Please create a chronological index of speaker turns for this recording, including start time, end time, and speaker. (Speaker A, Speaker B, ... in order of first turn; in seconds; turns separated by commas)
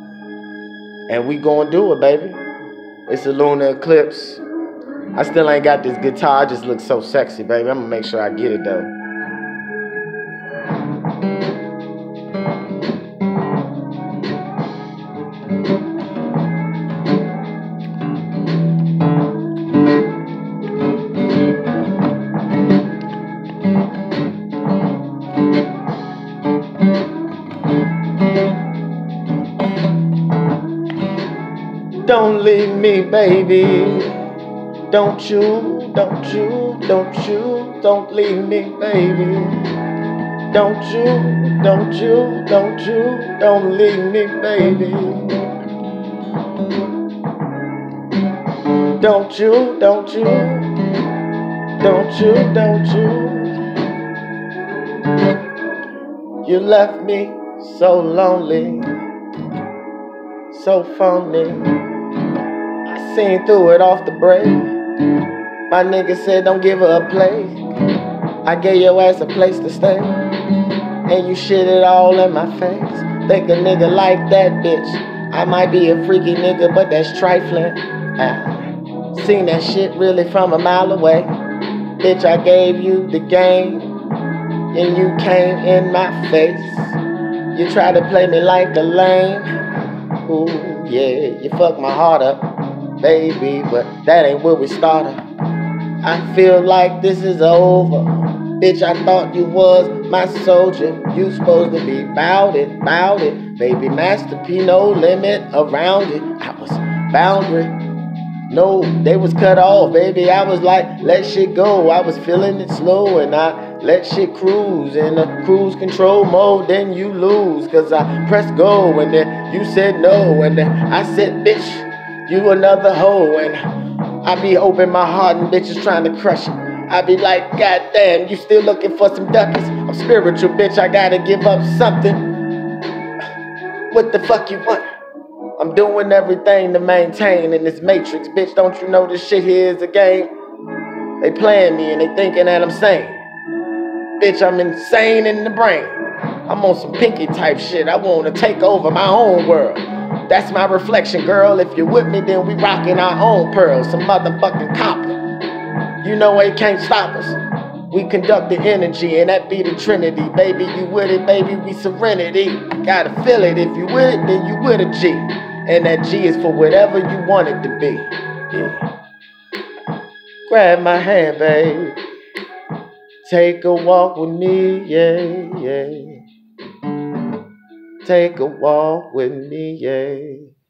Speaker A: 1.1-2.4, Speaker A: 3.1-4.4, Speaker A: 5.2-8.9, Speaker A: 32.1-34.1, Speaker A: 34.9-39.7, Speaker A: 40.5-45.3, Speaker A: 49.0-50.7, Speaker A: 51.8-53.5, Speaker A: 56.4-58.9, Speaker A: 60.5-61.8, Speaker A: 62.9-64.7, Speaker A: 65.7-67.6, Speaker A: 68.5-70.2, Speaker A: 71.1-81.3, Speaker A: 82.0-83.9, Speaker A: 84.7-87.0, Speaker A: 87.5-89.5, Speaker A: 90.2-92.5, Speaker A: 93.0-95.2, Speaker A: 96.0-107.7, Speaker A: 108.5-123.6, Speaker A: 124.2-132.3, Speaker A: 133.9-134.8, Speaker A: 135.6-140.3, Speaker A: 141.2-143.2, Speaker A: 144.2-155.2, Speaker A: 156.0-157.4, Speaker A: 157.9-168.8, Speaker A: 170.5-172.0, Speaker A: 173.2-176.2, Speaker A: 178.0-180.5